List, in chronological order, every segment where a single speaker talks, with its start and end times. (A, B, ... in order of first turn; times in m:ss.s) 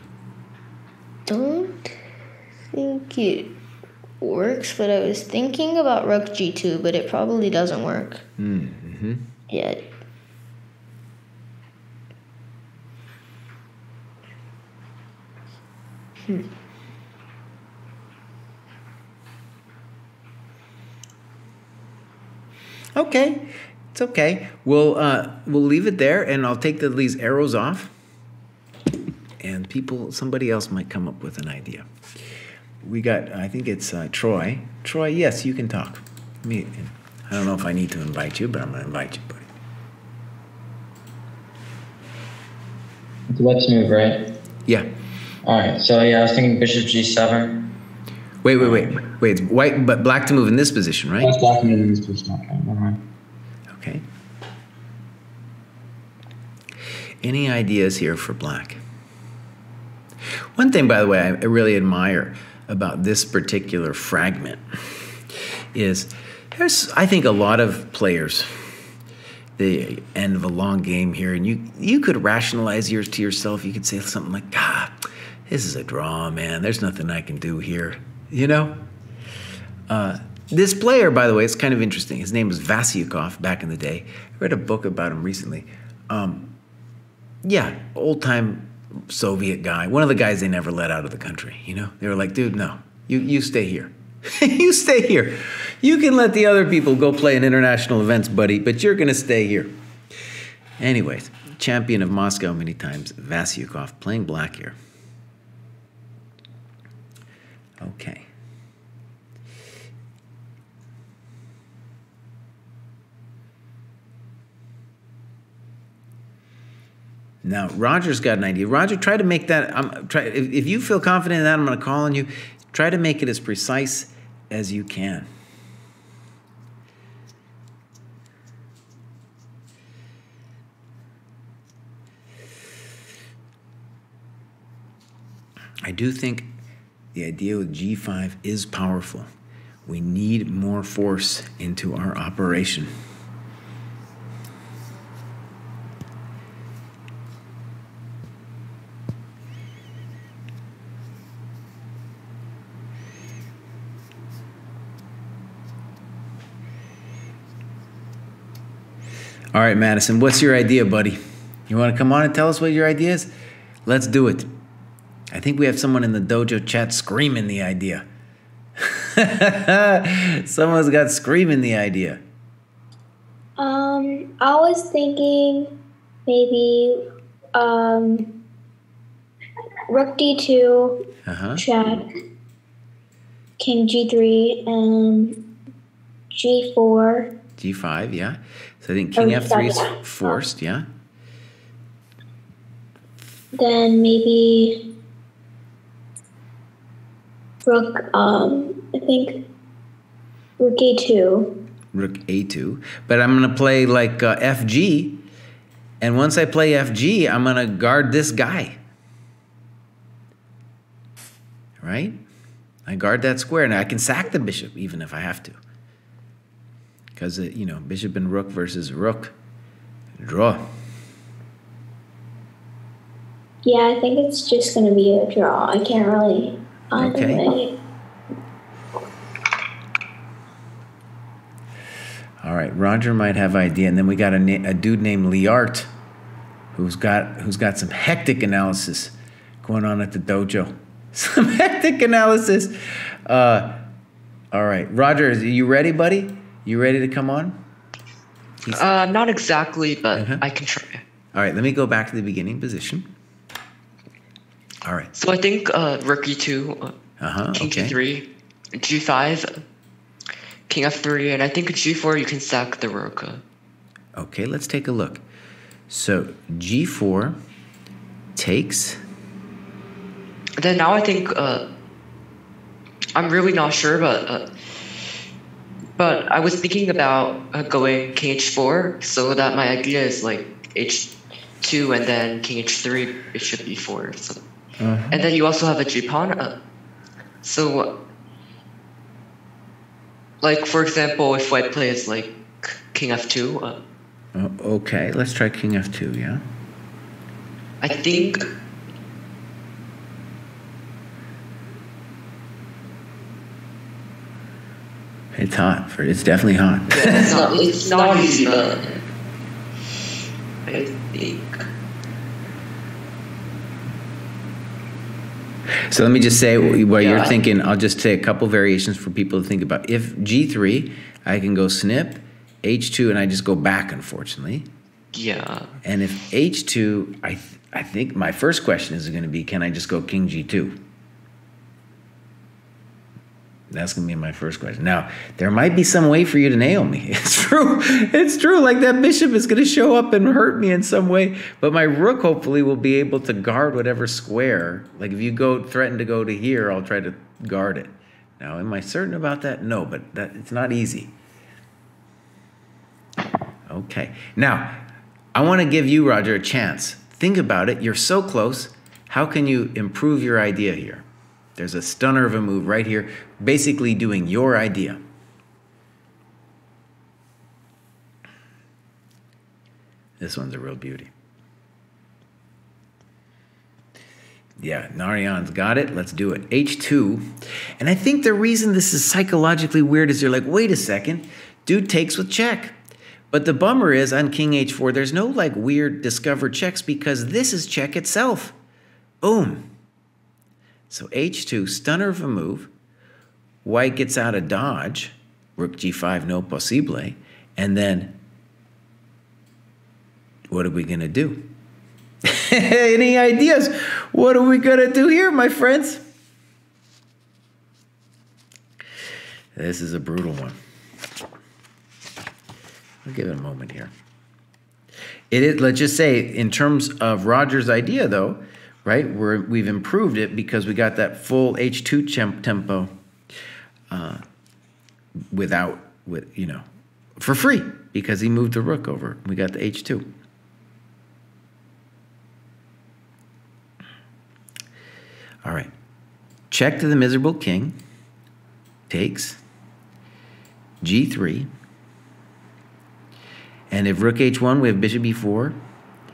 0:01.2-0:01.9 A
0:02.7-0:03.5 A
0:04.2-0:08.2 A
0:08.4-0:09.3 B
0:09.5-0:09.8 A
0:23.0-0:27.9 B
0:29.4-0:31.8 B
0:32.8-0:39.5 B
0:43.3-0:44.2 C
0:45.4-0:47.6 C
0:48.4-0:51.3 B
0:48.6-0:48.9 C
0:51.2-0:53.0 C
0:53.7-0:54.0 B
0:57.2-0:58.8 B
1:00.6-1:04.6 B
1:05.7-1:08.6 B
1:09.6-1:18.8 B
1:19.9-1:26.5 B
1:27.4-1:39.7 B
1:40.8-1:44.8 B
1:47.8-1:48.3 B
1:57.4-2:05.3 B
2:15.8-2:16.5 B
2:17.1-2:19.3 B
2:19.8-2:22.9 B
2:39.5-2:43.3 B
2:43.8-2:44.5 B
2:45.3-2:48.0 B
2:48.8-2:52.2 B
2:53.6-2:55.7 D
2:56.3-2:57.0 D
2:57.5-2:58.2 D
2:59.9-3:01.0 D
3:01.2-3:01.6 B
3:01.6-3:02.0 D
3:03.6-3:05.3 D
3:06.3-3:07.3 D
3:07.6-3:10.9 B
3:09.2-3:09.6 D
3:13.6-3:14.7 D
3:17.6-3:19.3 D
3:20.6-3:21.5 D
3:21.9-3:25.2 B
3:26.0-3:28.8 B
3:31.8-3:32.2 B
3:32.8-3:35.6 B
3:37.2-3:39.3 B
3:40.2-3:40.6 B
3:43.6-3:47.7 D
3:47.0-3:47.5 B
3:52.4-3:55.9 B
3:56.7-4:02.7 B
4:03.3-4:03.8 B
4:04.5-4:07.6 B
4:08.6-4:08.9 B
4:08.7-4:11.0 E
4:10.1-4:10.4 B
4:11.3-4:13.1 B
4:14.8-4:15.1 B
4:15.1-4:17.0 E
4:17.2-4:18.0 B
4:17.5-4:19.6 E
4:20.7-4:23.4 E
4:24.2-4:25.2 B
4:25.9-4:27.4 B
4:28.4-4:29.0 B
4:30.6-4:31.6 E
4:33.1-4:34.4 E
4:36.0-4:44.4 E
4:44.8-4:45.2 B
4:45.1-4:46.5 E
4:47.4-4:47.9 E
4:50.4-4:53.8 E
4:54.3-4:56.4 B
4:57.8-4:58.4 E
5:05.3-5:07.3 B
5:06.9-5:09.0 E
5:07.4-5:08.2 D
5:10.6-5:11.6 E
5:15.9-5:24.7 B
5:16.9-5:17.4 E
5:25.1-5:25.7 E
5:25.8-5:30.8 B
5:33.7-5:51.1 B
5:53.7-5:54.8 B
5:55.3-6:01.0 B
6:01.6-6:05.0 B
6:10.2-6:11.1 B
6:14.6-6:22.8 B
6:23.3-6:28.6 B
6:29.2-6:29.7 B
6:30.9-6:32.7 B
6:33.6-6:38.2 B
6:40.5-6:41.5 B
6:42.2-6:46.0 B
6:49.5-6:50.6 B
6:53.0-6:53.9 B
6:55.3-7:02.9 B
7:03.9-7:04.2 B
7:05.3-7:06.6 B
7:07.2-7:10.1 B
7:15.4-7:15.7 B
7:16.5-7:17.8 B
7:18.9-7:19.4 B
7:20.8-7:21.5 B
7:23.7-7:25.6 B